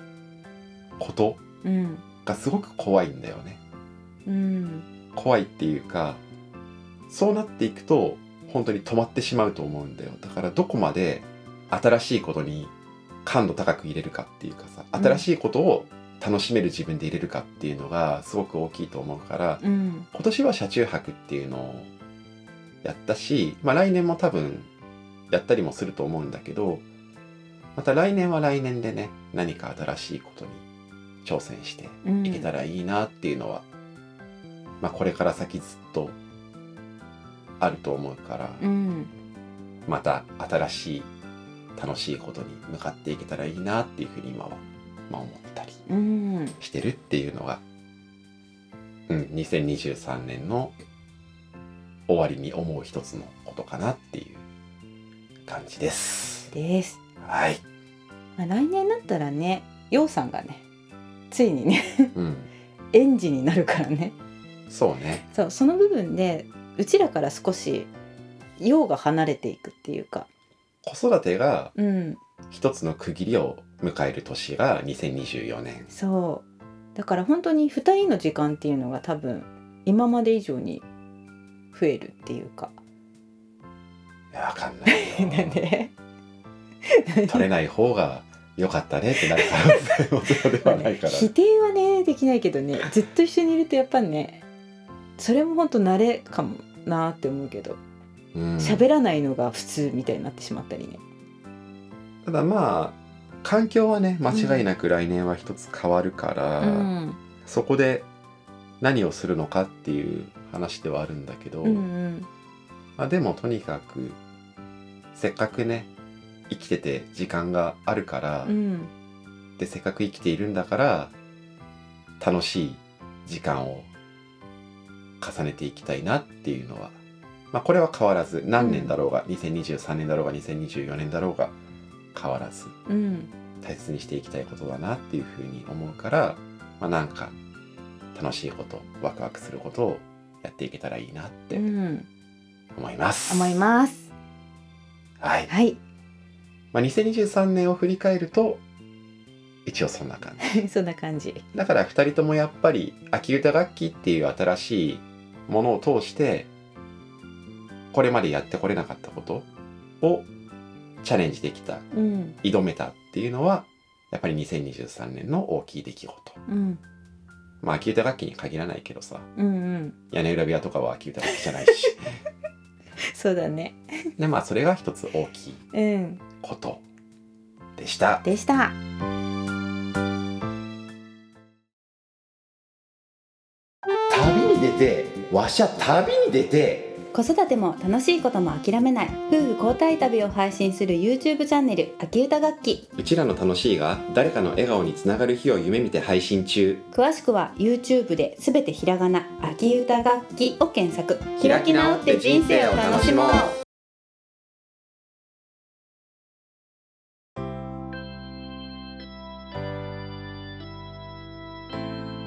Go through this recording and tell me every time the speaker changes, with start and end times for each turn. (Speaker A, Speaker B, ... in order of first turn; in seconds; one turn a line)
Speaker A: 1.0-1.4
Speaker B: 1.6-2.0
Speaker A: 2.2-3.6
Speaker B: 4.2-4.8
Speaker A: 5.1-6.2
Speaker A: 7.1-12.7
Speaker A: 13.2-19.6
Speaker B: 14.9-15.2
Speaker B: 19.6-20.1
Speaker A: 20.1-21.9
Speaker A: 22.8-24.7
Speaker A: 25.3-26.8
Speaker A: 27.7-30.6
Speaker A: 31.2-33.6
Speaker B: 32.0-32.5
Speaker A: 34.8-36.1
Speaker A: 37.6-38.6
Speaker B: 38.6-39.1
Speaker A: 39.9-41.1
Speaker A: 41.8-45.8
Speaker B: 45.9-46.6
Speaker A: 46.6-47.6
Speaker A: 49.1-50.7
Speaker A: 52.1-54.4
Speaker A: 55.5-56.5
Speaker B: 56.5-57.0
Speaker A: 57.2-57.6
Speaker B: 58.4-60.6
Speaker B: 61.3-62.1
Speaker A: 62.1-62.5
Speaker B: 62.9-64.1
Speaker A: 64.7-65.2
Speaker B: 65.3-67.9
Speaker B: 68.6-70.3
Speaker A: 70.8-71.7
Speaker B: 71.8-72.2
Speaker A: 72.5-75.9
Speaker B: 75.9-76.4
Speaker B: 76.9-80.8
Speaker B: 81.7-82.7
Speaker A: 84.3-85.6
Speaker B: 84.8-85.9
Speaker B: 86.8-87.5
Speaker A: 87.3-91.3
Speaker B: 89.4-94.4
Speaker B: 95.2-97.8
Speaker A: 98.3-98.8
Speaker B: 98.6-101.0
Speaker A: 102.2-106.9
Speaker B: 104.3-104.7
Speaker B: 106.6-107.2
Speaker A: 107.4-108.0
Speaker A: 108.8-111.9
Speaker B: 111.6-112.3
Speaker A: 113.0-114.2
Speaker A: 115.1-115.9
Speaker A: 116.5-118.5
Speaker B: 118.4-118.9
Speaker A: 119.6-121.1
Speaker A: 122.2-123.9
Speaker A: 125.2-126.9
Speaker A: 127.5-131.5
Speaker B: 128.6-128.9
Speaker A: 132.1-132.8
Speaker B: 132.9-133.3
Speaker A: 133.6-137.3
Speaker A: 138.1-141.6
Speaker B: 141.5-142.1
Speaker A: 142.7-143.6
Speaker B: 143.3-144.1
Speaker A: 145.2-145.5
Speaker B: 145.5-145.8
Speaker A: 146.7-148.6
Speaker A: 149.6-150.6
Speaker B: 150.4-151.4
Speaker A: 151.5-156.5
Speaker A: 157.9-159.4
Speaker A: 160.0-160.3
Speaker A: 161.0-161.8
Speaker B: 161.9-162.3
Speaker A: 162.4-166.4
Speaker B: 166.5-166.8
Speaker A: 167.6-169.3
Speaker B: 169.3-169.9
Speaker A: 170.1-172.2
Speaker B: 171.3-171.9
Speaker B: 173.0-173.8
Speaker A: 174.2-175.6
Speaker B: 175.7-176.2
Speaker A: 176.4-176.8
Speaker A: 177.8-178.2
Speaker B: 178.2-178.8
Speaker A: 184.1-187.0
Speaker C: 187.1-192.9
Speaker A: 193.0-196.8
Speaker C: 196.9-203.5
Speaker A: 201.4-203.6